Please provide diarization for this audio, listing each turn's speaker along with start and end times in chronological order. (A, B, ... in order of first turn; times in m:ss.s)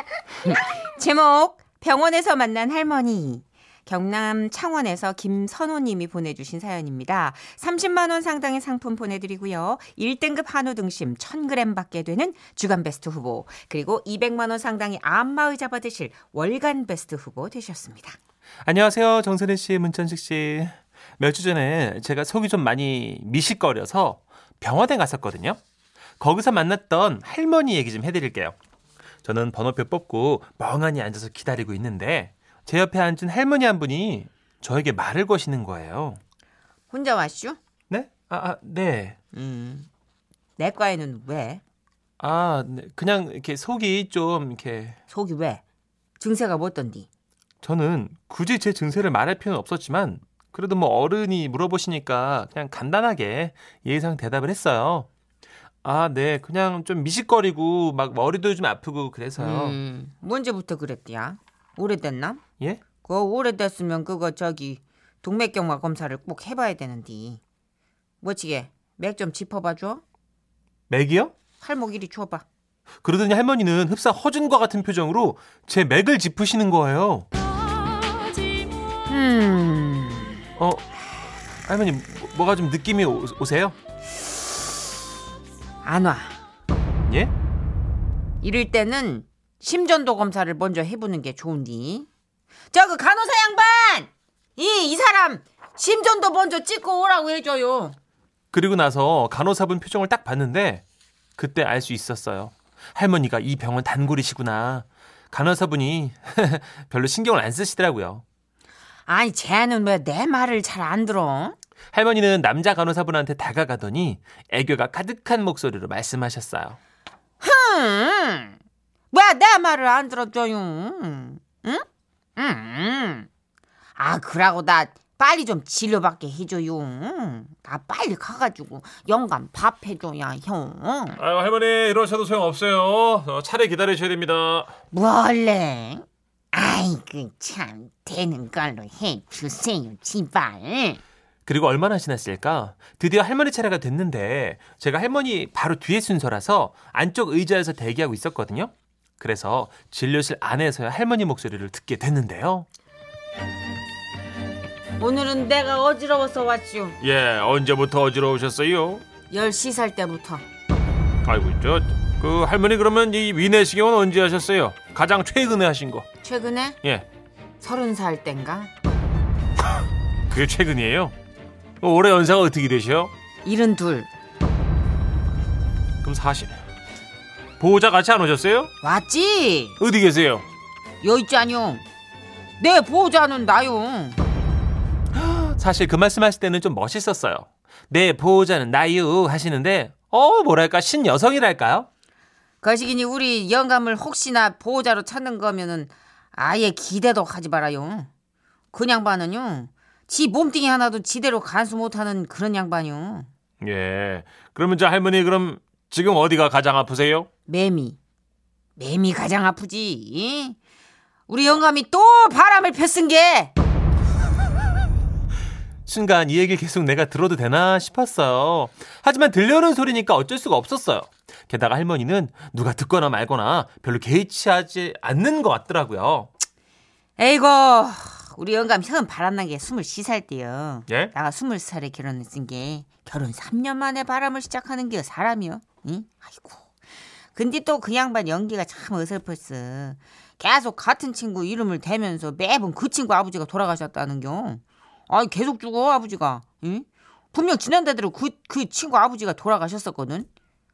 0:00.4-0:18.2 A
0:18.6-0:25.6 B
0:26.2-0:28.6 B
0:29.2-0:36.2 B
0:36.9-0:37.6 A
0:37.9-0:39.2 B
0:39.3-0:39.9 A
0:40.6-0:41.6 A
0:42.2-0:45.0 B
0:45.1-0:45.6 A
0:46.2-0:47.1 A
0:47.6-0:55.1 B
0:55.8-0:59.8 B
0:59.4-1:02.4 A
1:03.0-1:07.4 A
1:08.2-1:10.0 A
1:10.9-1:11.3 B
1:11.6-1:12.4 A
1:13.0-1:17.3 B
1:19.1-1:20.4 A
1:20.6-1:20.9 B
1:21.6-1:23.8 B
1:25.8-1:26.4 A
1:27.1-1:27.3 B
1:28.4-1:32.1 A
1:32.7-1:38.0 A
1:38.5-1:40.8 B
1:41.4-1:48.2 B
1:49.1-1:51.6 A
1:51.9-1:56.8 B
1:57.4-1:58.6 A
1:59.1-2:01.8 A
2:02.4-2:03.3 A
2:04.0-2:11.2 A
2:11.2-2:14.7 B
2:14.9-2:21.0 A
2:21.5-2:32.7 B
2:35.0-2:37.0 A
2:37.0-2:39.0 B
2:39.3-2:40.4 A
2:41.2-2:46.1 B
2:46.2-2:46.8 A
2:47.6-2:48.7 A
2:50.3-2:51.2 B
2:51.8-2:53.1 B
2:53.4-2:54.1 A
2:56.0-2:56.6 B
2:57.6-2:58.7 B
2:58.8-2:59.8 A
2:59.8-3:00.4 B
3:01.0-3:01.8 A
3:02.6-3:04.2 A
3:05.1-3:11.9 B
3:12.6-3:18.1 A
3:18.7-3:23.3 A
3:23.6-3:27.3 B
3:27.5-3:28.0 A
3:28.8-3:30.6 A
3:31.3-3:33.5 A
3:35.9-3:46.3 B
3:47.2-3:56.6 A
3:57.4-4:10.3 A